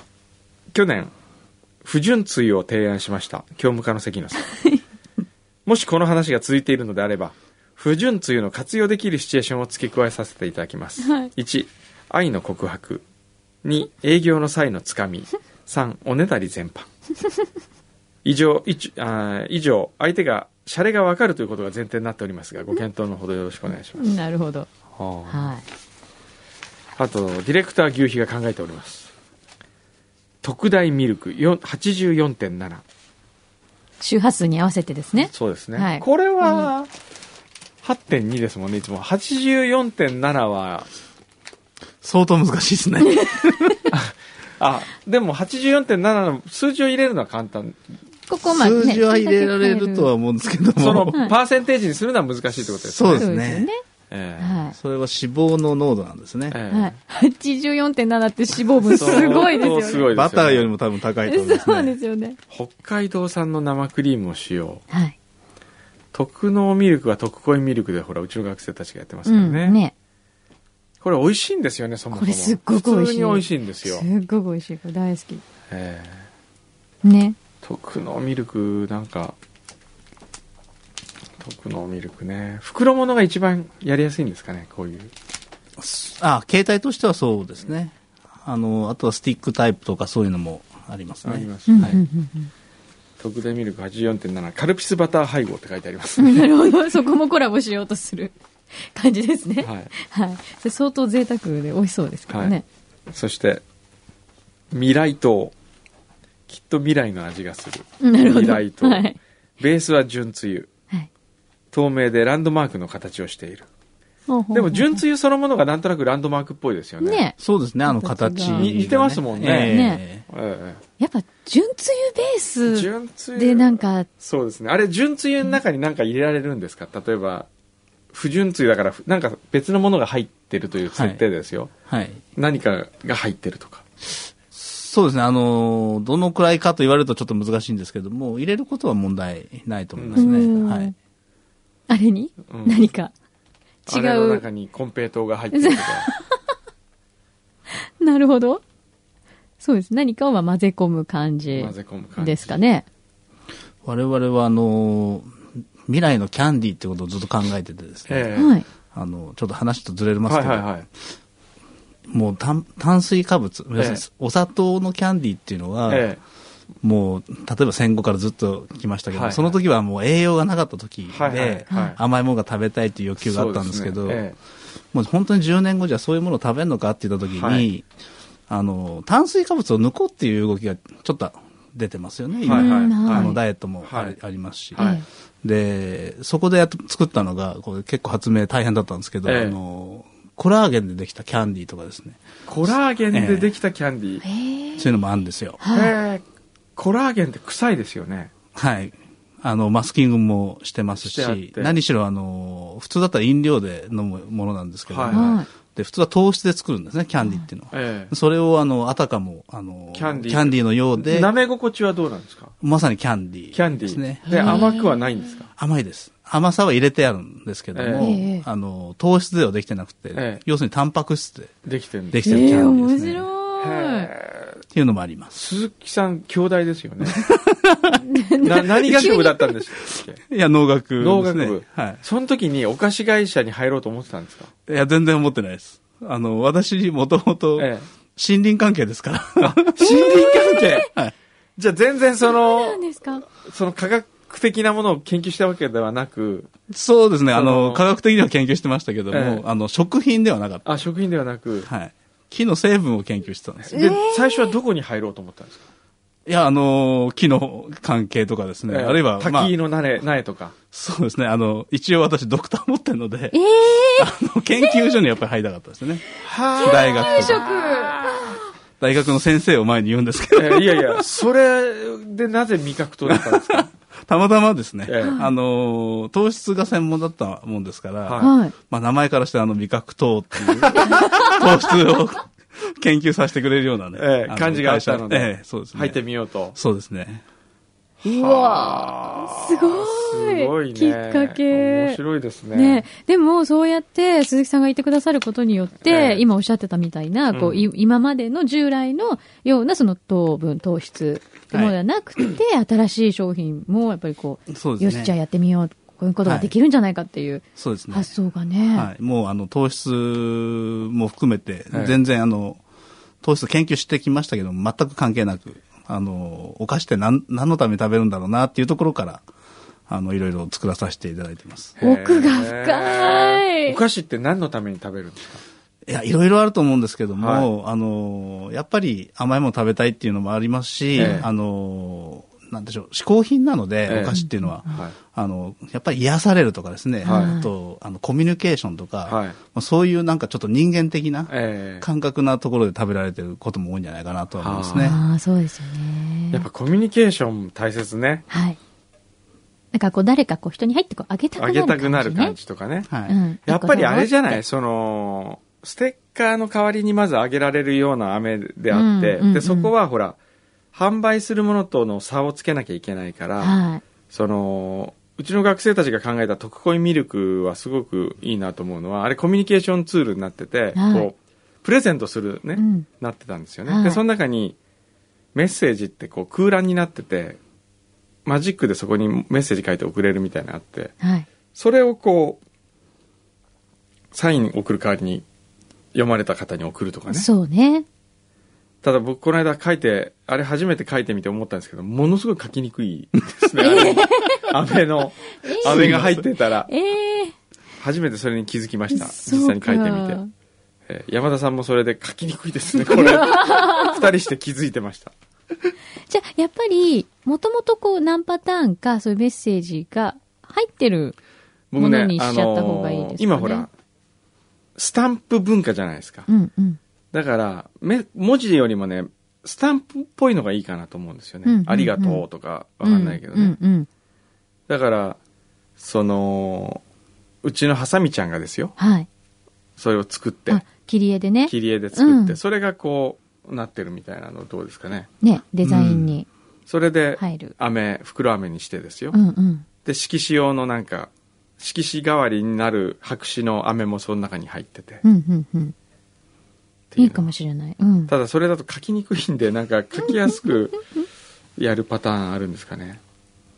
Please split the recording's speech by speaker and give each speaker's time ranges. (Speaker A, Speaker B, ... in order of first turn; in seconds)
Speaker A: 0.7-1.1, 1.8-4.5, 5.7-13.0, 13.6-16.9, 18.2-24.1, 24.9-25.5, 27.0-29.1, 30.4-32.8, 35.2-36.9, 37.8-40.9, 43.9-47.8, 50.8-53.3, 54.1-54.6, 56.5-57.0, 58.9-60.7, 62.5-64.8, 66.1-69.8, 71.0-74.1, 75.7-76.3, 77.6-79.3, 81.4-85.1, 91.2-92.0, 93.2-96.5, 99.6-99.9, 102.3-102.6, 103.1-103.6, 104.7-105.5, 106.5-109.0, 109.6-110.7, 111.7-113.7, 114.5-117.2, 118.4-119.8, 120.3-120.8, 122.7-127.5, 128.1-131.7, 132.3-133.8, 140.0-140.3, 142.5-142.9, 143.9-146.1, 151.5-152.6, 158.1-158.6, 160.3-160.8, 163.8-164.0, 165.9-166.2, 169.1-169.6, 171.1-172.0, 173.2-174.3, 177.3-177.7, 182.4-184.2, 189.2-189.6, 192.5-194.2, 195.7-196.2, 196.8-198.3, 200.9-201.8, 204.9-205.3, 207.7-208.1, 209.9-212.5, 213.5-215.5, 217.7-218.2, 220.1-220.4, 221.6-222.7, 223.6-224.6, 225.3-227.3, 228.4-230.2, 231.0-234.5, 237.6-237.9, 239.4-240.9, 241.6-246.5, 247.3-247.8, 249.1-249.4, 250.6-251.7, 253.7-255.7, 258.7-260.6, 266.2-268.4, 270.3-273.7, 274.9-275.2, 278.1-278.3, 280.6-281.2, 284.0-286.6, 288.0-292.8, 295.8-296.2, 297.3-297.7, 321.8-325.4, 327.2-327.5, 331.0-331.3, 333.9-334.9, 337.0-337.4, 339.1-339.4, 341.3-341.9, 344.4-345.0, 346.3-348.2, 351.4-352.9, 353.4-360.2, 360.7-374.6, 375.3-377.4, 378.2-380.9, 381.5-382.4, 384.1-385.2, 385.9-387.3, 388.8-396.7, 397.8-400.2, 400.9-405.1, 411.7-413.7, 414.8-416.3, 417.1-423.6, 424.7-425.2, 425.8-426.8, 427.4-428.7, 429.8-430.6, 431.5-435.1, 436.7-439.2, 439.8-445.0, 446.9-447.3, 448.1-450.8, 451.6-453.0
Speaker B: 4.4-4.8, 11.0-11.3, 24.0-24.7, 25.3-25.6, 34.0-36.7, 43.0-43.9, 48.3-50.1, 53.1-53.8, 54.4-54.8, 56.7-60.1, 61.3-62.4, 64.9-65.2, 69.2-69.9, 72.1-75.4, 77.0-77.4, 91.7-92.5, 96.2-102.6, 108.0-109.2, 114.3-115.0, 117.0-118.8, 119.5-120.0, 121.0-124.1, 140.2-140.9, 141.9-143.1, 143.8-144.4, 145.5-146.4, 147.7-148.6, 149.6-152.8, 158.3-158.6, 171.7-172.0, 182.5-183.4, 184.8-185.0, 194.2-194.9, 195.6-195.9, 205.1-205.5, 207.2-207.4, 214.2-214.9, 218.0-218.4, 222.2-224.1, 228.0-229.5, 240.0-240.8, 242.2-243.2, 253.7-254.5, 263.3-264.1, 266.6-268.3, 278.2-278.5, 280.8-281.4, 288.0-292.0, 292.5-308.9, 321.8-323.8, 330.9-331.2, 334.1-334.5, 337.0-337.5, 344.8-346.4, 348.3-348.6, 349.7-352.4, 353.1-354.4, 358.7-359.7, 363.4-363.8, 370.7-371.1, 372.6-372.9, 373.7-374.0, 381.0-381.3, 387.1-387.9, 393.6-394.5, 395.4-397.3, 398.9-400.3, 402.8-404.0, 406.1-411.2, 411.8-413.6, 416.3-416.8, 421.4-422.2, 422.8-423.9, 428.8-429.1, 430.5-432.4, 435.2-436.3, 437.2-437.5, 439.1-439.6, 445.0-445.7, 447.0-448.1
Speaker C: 42.0-43.9, 48.5-51.1, 52.8-53.7, 54.7-56.6, 59.1-59.4, 60.1-62.0, 85.8-92.0, 117.4-120.2, 130.9-131.2, 131.9-132.2, 134.5-140.9, 153.8-158.3, 158.9-160.8, 162.1-166.1, 166.8-174.2, 174.9-177.8, 178.5-184.9, 185.4-193.5, 194.8-195.6, 198.5-211.3, 212.6-214.7, 215.6-221.5, 222.1-223.2, 224.7-225.3, 227.0-228.0, 230.2-232.0, 234.7-240.3, 246.7-250.6, 251.6-253.8, 256.2-259.5, 260.7-266.0, 266.6-267.4, 268.8-271.0, 273.1-286.0, 286.6-287.2, 304.5-305.1, 306.2-306.5, 307.6-308.1, 308.7-312.6, 313.2-319.2, 319.9-321.8, 325.9-345.0, 352.9-353.2, 395.6-396.2, 435.6-436.1